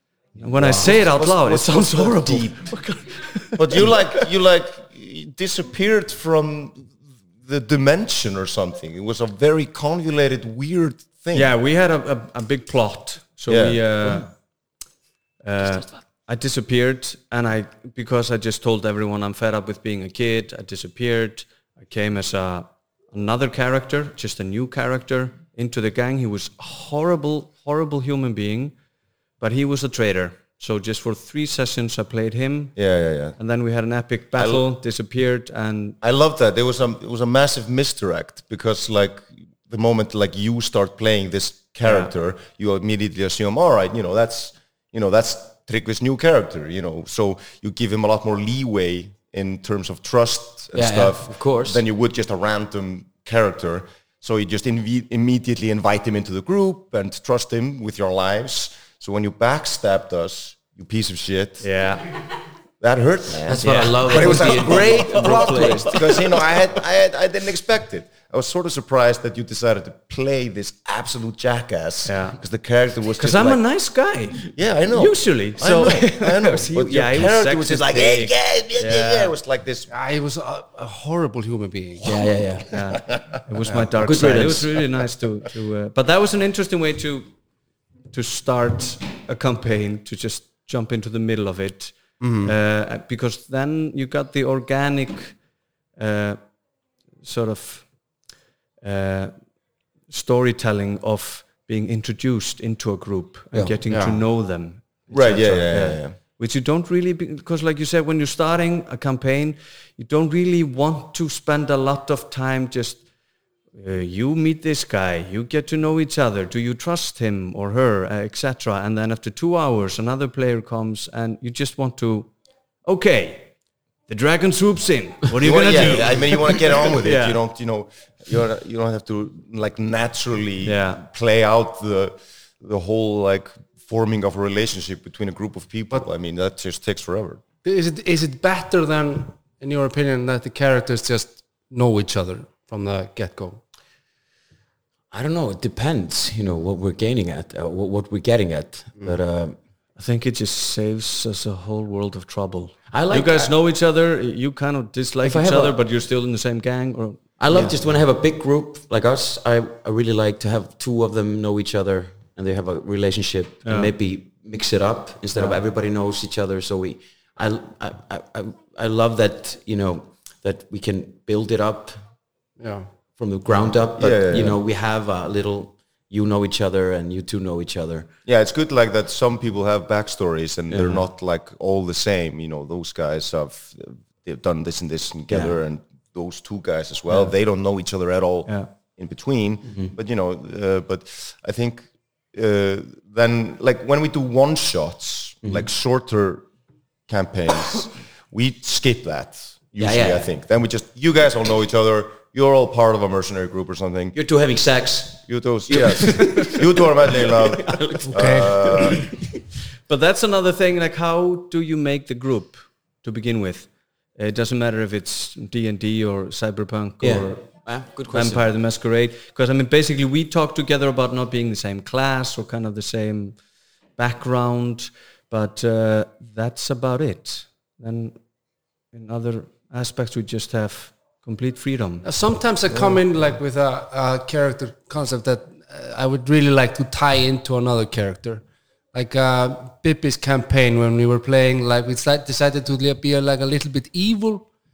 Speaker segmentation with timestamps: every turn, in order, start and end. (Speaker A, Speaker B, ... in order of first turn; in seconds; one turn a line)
Speaker A: 0.4-4.2
Speaker B: 0.4-2.7
Speaker B: 3.6-11.5
Speaker A: 11.3-14.3
Speaker B: 13.5-14.2
Speaker A: 15.4-28.7
Speaker A: 29.4-32.7
Speaker B: 32.8-33.4
Speaker A: 33.4-36.0
Speaker B: 34.4-34.7
Speaker B: 36.0-61.7
Speaker A: 41.9-42.1
Speaker C: 50.8-51.8
Speaker A: 61.6-62.1
Speaker B: 62.8-73.6
Speaker C: 63.5-66.2
Speaker A: 63.6-66.5
Speaker A: 72.1-72.3
Speaker A: 73.2-79.3
Speaker B: 74.5-79.9
Speaker D: 79.9-82.0
Speaker B: 82.0-83.8
Speaker C: 82.0-82.7
Speaker A: 82.7-87.3
Speaker C: 84.0-84.7
Speaker A: 88.1-95.4
Speaker A: 96.0-96.4
Speaker A: 97.2-97.9
Speaker A: 98.8-99.3
Speaker A: 100.1-113.0
Speaker D: 103.9-104.2
Speaker B: 105.1-106.2
Speaker A: 113.8-122.3
Speaker A: 122.8-123.5
Speaker A: 124.1-127.4
Speaker B: 125.4-137.4
Speaker C: 125.7-126.2
Speaker A: 130.6-131.0
Speaker D: 137.6-143.6
Speaker C: 145.1-149.6
Speaker A: 150.0-157.7
Speaker C: 152.9-153.5
Speaker C: 155.2-155.8
Speaker C: 157.4-172.0
Speaker A: 163.7-163.9
Speaker D: 172.6-172.9
Speaker C: 173.2-178.1
Speaker B: 174.0-174.6
Speaker B: 178.3-196.5
Speaker C: 180.7-181.1
Speaker C: 185.3-185.6
Speaker C: 189.7-189.9
Speaker B: 197.1-204.2
Speaker C: 199.8-200.3
Speaker C: 204.2-209.2
Speaker B: 205.3-209.1
Speaker A: 206.2-206.5
Speaker D: 208.2-208.6
Speaker A: 209.9-217.4
Speaker C: 217.0-218.5
Speaker A: 218.1-223.4
Speaker A: 224.0-228.2
Speaker A: 228.9-232.1
Speaker D: 232.0-244.5